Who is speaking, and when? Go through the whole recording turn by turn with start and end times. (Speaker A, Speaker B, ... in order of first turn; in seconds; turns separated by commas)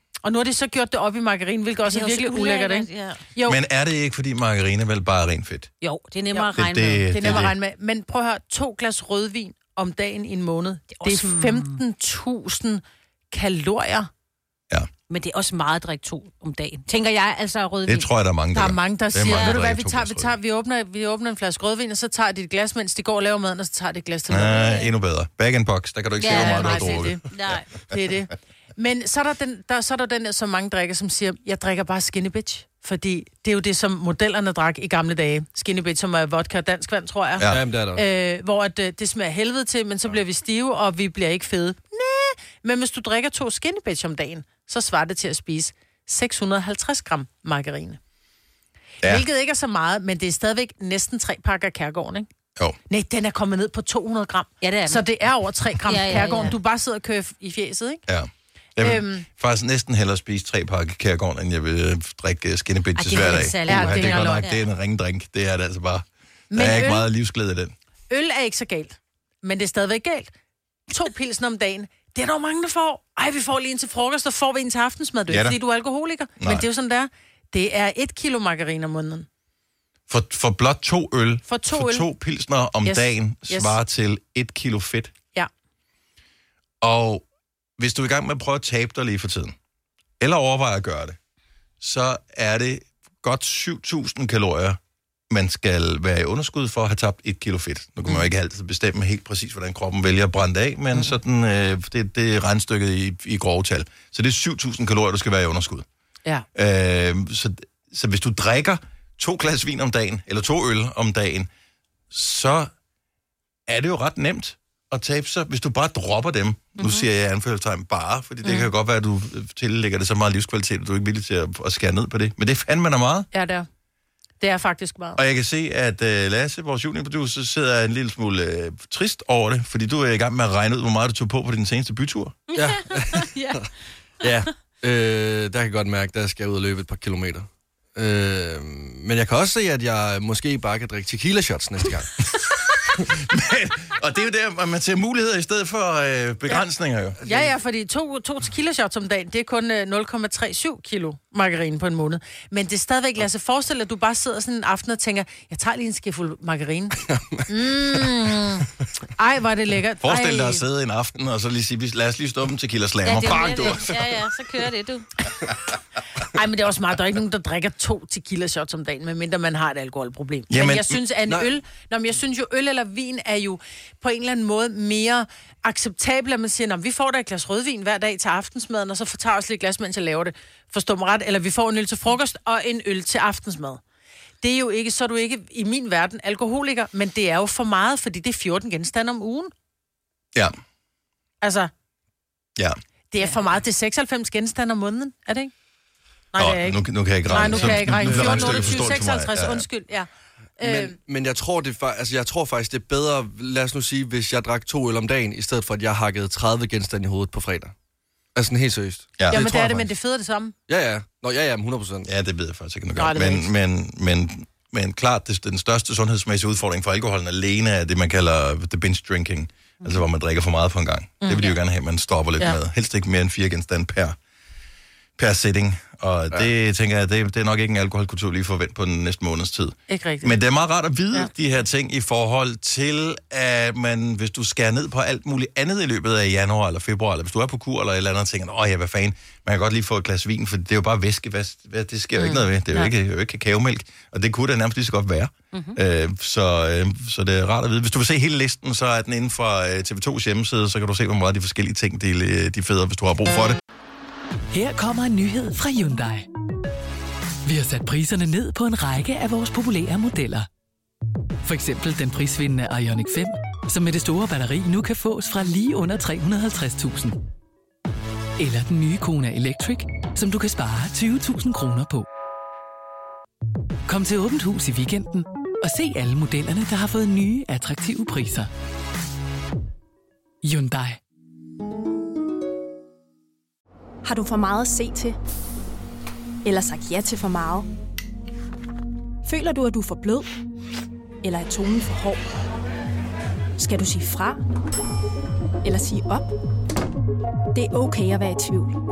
Speaker A: 0.2-3.6, Speaker B: 1.9-3.2, Speaker C: 3.5-5.7, Speaker B: 5.8-7.5, Speaker A: 5.9-6.5, Speaker C: 6.4-7.5, Speaker A: 7.1-14.1, Speaker B: 11.0-11.8, Speaker B: 15.1-18.1, Speaker C: 17.9-20.3, Speaker A: 18.5-24.8, Speaker B: 19.3-19.6, Speaker C: 24.3-27.6, Speaker B: 26.2-27.7, Speaker A: 26.3-27.2, Speaker A: 27.9-48.0, Speaker D: 37.5-38.0, Speaker A: 49.0-52.3, Speaker A: 52.9-58.0, Speaker B: 54.6-55.0, Speaker B: 55.8-56.5, Speaker C: 58.1-67.7, Speaker A: 58.8-59.2, Speaker B: 63.0-64.6, Speaker A: 63.2-64.5, Speaker A: 66.5-67.1, Speaker A: 68.1-70.3, Speaker A: 70.9-79.3, Speaker C: 75.3-75.6, Speaker C: 76.4-76.6, Speaker C: 80.1-85.1, Speaker A: 81.5-82.1, Speaker A: 82.8-83.8, Speaker C: 86.8-87.2, Speaker C: 87.8-89.5, Speaker C: 90.2-91.2, Speaker C: 91.8-94.8, Speaker C: 95.3-105.9, Speaker C: 106.5-111.5, Speaker C: 112.1-112.7, Speaker C: 113.7-123.3, Speaker A: 123.3-123.7, Speaker A: 124.4-125.2, Speaker C: 125.2-132.4, Speaker B: 132.5-133.7, Speaker D: 132.5-133.7, Speaker D: 134.2-142.1, Speaker C: 143.1-147.2, Speaker D: 147.2-147.5, Speaker A: 147.2-157.0, Speaker D: 157.0-158.1, Speaker A: 157.5-160.6, Speaker C: 160.0-164.1, Speaker B: 163.0-165.1, Speaker A: 166.3-183.8, Speaker C: 170.5-171.0, Speaker A: 184.4-189.5, Speaker A: 191.4-191.7, Speaker A: 193.1-195.5, Speaker A: 196.3-201.0, Speaker C: 196.4-199.7, Speaker D: 197.3-198.8, Speaker D: 200.6-207.7, Speaker D: 208.3-209.9, Speaker A: 209.3-210.5, Speaker D: 210.7-212.1, Speaker C: 212.1-224.2, Speaker A: 212.9-213.5, Speaker A: 221.2-221.6, Speaker C: 225.2-253.6, Speaker A: 229.9-230.4, Speaker E: 254.5-256.2, Speaker E: 257.4-260.5, Speaker E: 261.4-267.2, Speaker E: 268.4-272.1, Speaker E: 273.9-278.5, Speaker E: 280.4-281.0, Speaker F: 284.1-285.2, Speaker F: 286.4-287.7, Speaker F: 289.2-290.3, Speaker F: 291.2-292.2, Speaker F: 293.6-294.4, Speaker F: 295.6-296.3, Speaker F: 297.5-298.8